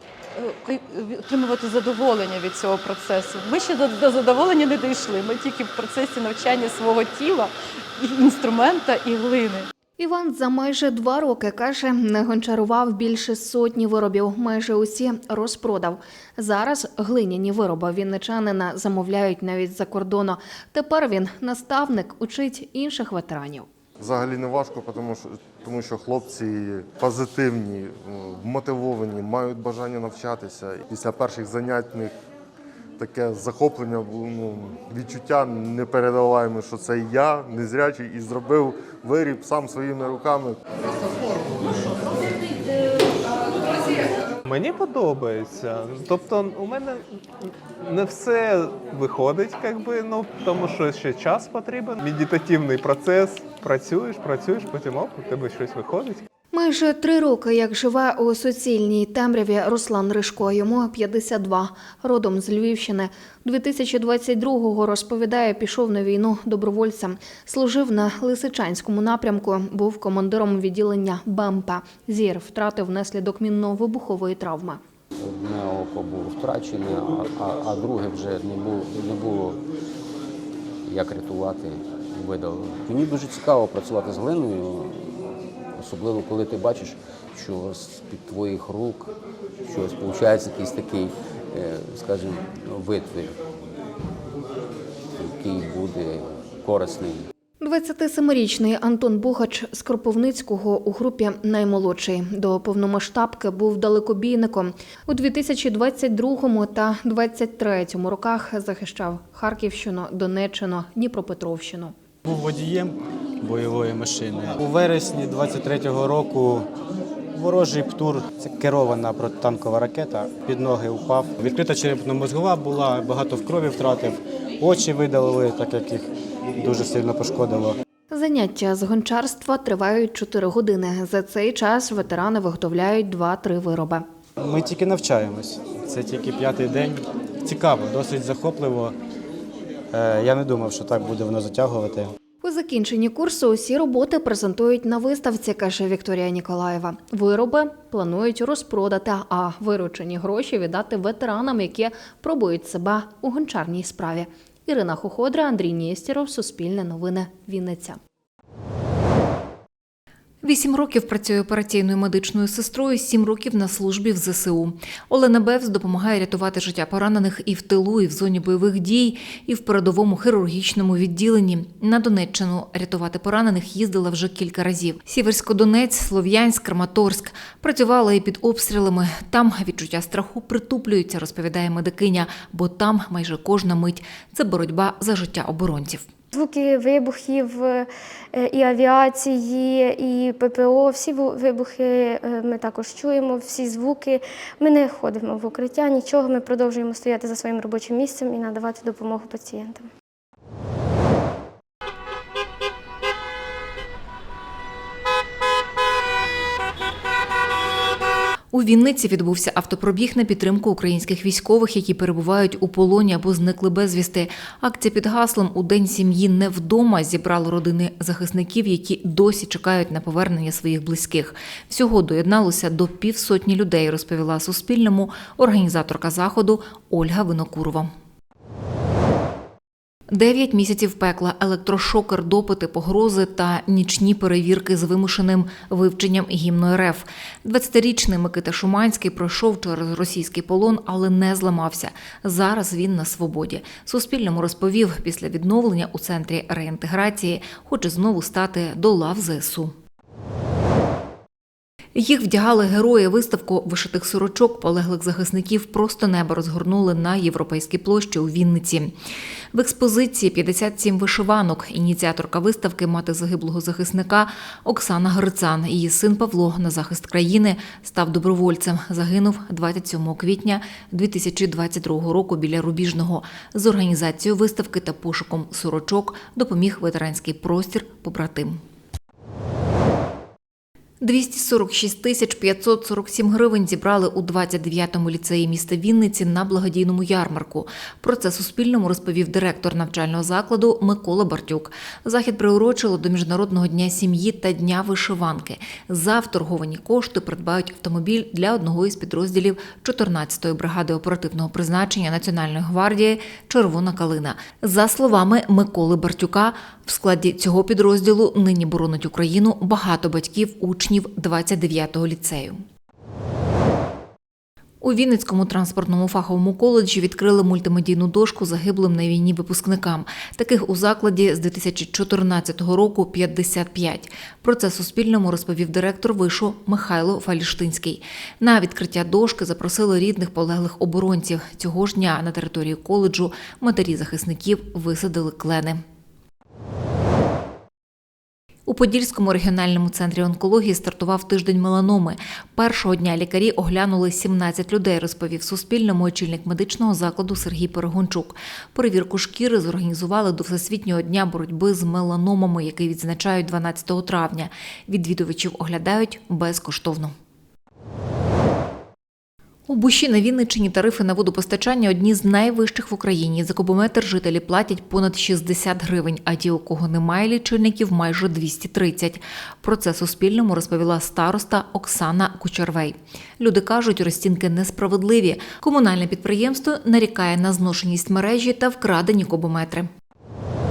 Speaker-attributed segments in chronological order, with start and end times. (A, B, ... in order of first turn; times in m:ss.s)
0:00.3-0:09.7 A
0:10.0-0:23.7 B
0:24.0-0:32.1 C
0:33.0-0:40.6 C
0:44.4-0:47.0 D
0:47.8-0:56.2 D
0:56.5-1:14.8 B
1:15.2-1:19.6 E
1:20.8-1:25.2 E
1:25.8-1:29.1 E
1:29.6-1:33.4 E
1:35.2-1:37.2 E
1:37.6-1:51.9 B
1:52.2-1:56.6 F
1:57.3-2:06.1 F
2:06.6-2:07.7 F
2:08.1-2:14.0 B
2:14.4-2:18.9 F
2:19.9-2:22.1 F
2:22.4-2:38.0 B
2:40.4-3:06.1 G
3:06.3-3:19.9 H
3:28.5-3:47.9 G
3:50.1-4:09.7 G
4:11.9-4:18.9 G
4:19.5-4:38.6 G
4:41.0-5:12.6 G
5:14.8-5:35.8 G
5:38.7-5:57.1 G
5:59.7-6:19.9 G